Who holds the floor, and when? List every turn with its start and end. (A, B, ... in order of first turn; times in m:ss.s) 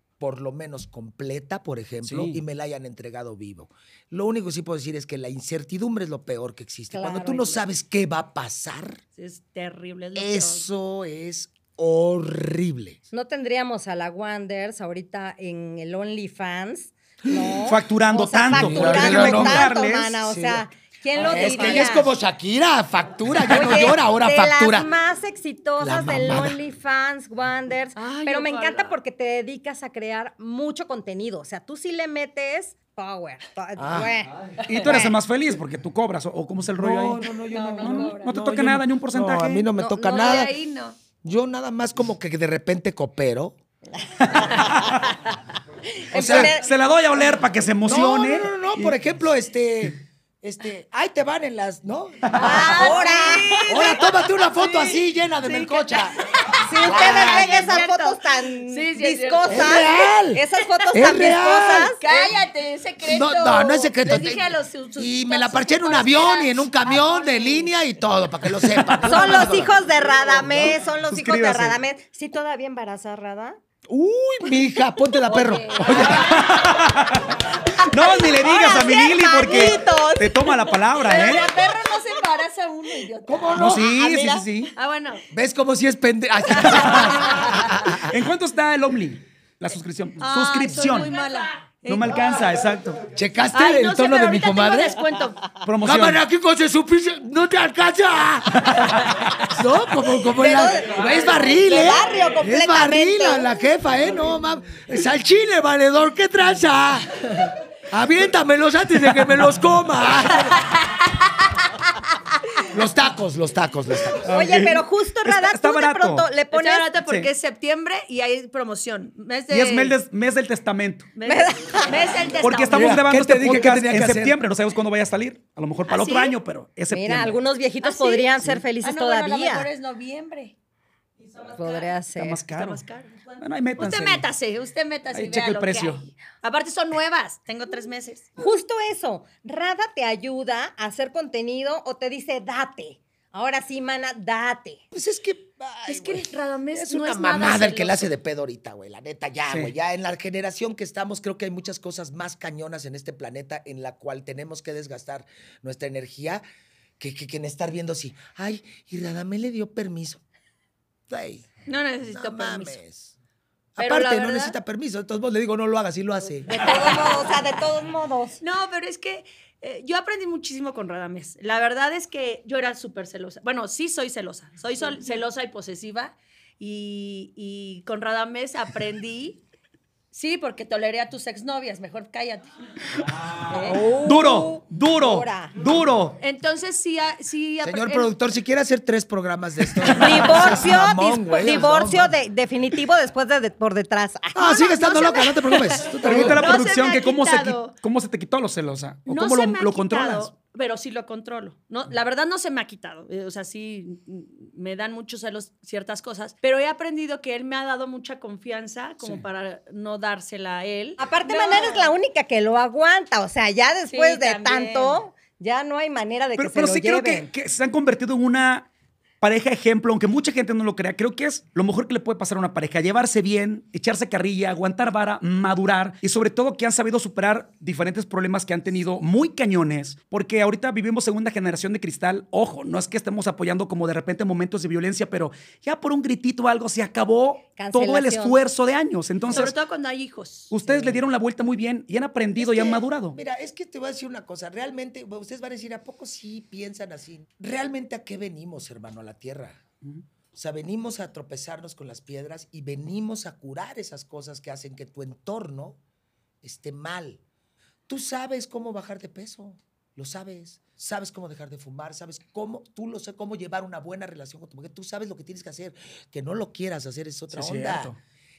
0:00.2-0:09.0 A
0:02.0-0:02.4 B
0:06.9-0:07.6 C
0:09.2-0:10.7 D
0:10.1-0:13.0 A
0:13.1-0:22.1 C
0:17.6-0:20.2 B
0:18.5-0:19.7 A
0:20.2-0:20.6 A
0:21.1-0:24.9 A
0:21.2-0:21.9 D
0:23.5-0:35.1 C
0:25.8-0:26.6 A
0:28.0-0:28.9 D
0:33.8-0:34.1 A
0:34.6-0:39.6 B
0:36.7-0:40.5 A
0:37.5-0:38.3 D
0:39.8-0:41.0 D
0:41.2-0:43.6 A
0:44.3-0:45.1 B
0:45.9-0:46.6 C
0:46.1-0:46.5 A
0:46.1-0:48.9 B
0:47.8-0:52.8 A
0:52.3-1:00.0 D
0:52.4-0:54.0 C
0:53.7-0:56.2 A
0:56.6-1:02.3 C
0:56.8-0:57.9 A
0:59.5-1:01.9 A
1:01.8-1:07.7 D
1:03.0-1:09.7 A
1:09.0-1:13.6 C
1:11.1-1:11.8 B
1:13.9-1:16.3 A
1:15.2-1:16.4 D
1:15.8-1:21.5 B
1:17.8-1:21.9 C
1:21.0-1:23.4 D
1:23.2-1:24.7 A
1:23.5-1:24.4 B
1:23.6-1:24.4 C
1:24.8-1:25.2 D
1:25.3-1:28.1 A
1:26.7-1:27.1 B
1:27.8-1:31.1 B
1:30.2-1:32.6 D
1:31.8-1:33.0 B
1:33.1-1:35.0 A
1:33.5-1:35.5 D
1:35.6-1:36.2 B
1:35.8-1:38.9 A
1:38.6-1:38.9 B
1:39.4-1:50.6 A
1:40.3-1:43.5 C
1:50.3-1:51.0 D
1:52.7-1:54.3 A
1:54.2-1:56.3 B
1:54.3-1:56.9 C
1:56.5-2:00.0 D
1:57.0-1:57.3 B
1:59.5-2:01.1 B
2:01.2-2:03.0 D
2:01.2-2:02.0 C
2:02.4-2:07.3 B
2:02.7-2:04.4 A
2:05.9-2:06.4 D
2:06.9-2:09.7 C
2:07.8-2:10.5 D
2:11.2-2:12.0 D
2:11.6-2:12.4 C
2:12.2-2:12.8 B
2:12.5-2:18.3 D
2:13.4-2:14.2 B
2:15.1-2:16.0 B
2:18.4-2:24.8 C
2:24.9-2:36.4 A
2:25.8-2:28.1 D
2:29.5-2:29.7 B
2:37.0-2:40.2 A
2:41.1-2:41.5 A
2:41.6-2:42.8 D
2:42.0-2:43.1 A
2:43.8-2:46.9 A
2:43.8-2:44.6 D
2:46.5-2:48.4 C
2:48.4-2:59.4 D
3:00.1-3:02.5 D
3:03.5-3:05.5 C
3:03.6-3:06.2 B
3:06.2-3:08.1 D
3:07.6-3:12.1 A
3:10.0-3:14.6 C
3:14.3-3:16.4 A
3:14.4-3:17.7 D
3:16.0-3:20.3 B
3:19.1-3:31.9 D
3:31.0-3:37.3 C
3:33.9-3:35.0 D
3:36.4-3:38.7 B
3:39.2-3:59.5 B
3:57.6-3:58.4 C
3:59.3-4:00.5 D
4:00.5-4:03.2 B
4:00.7-4:01.0 A
4:02.4-4:09.6 A
4:10.3-4:15.8 A
4:16.4-4:17.2 A
4:17.9-4:27.9 A
4:27.3-4:28.0 B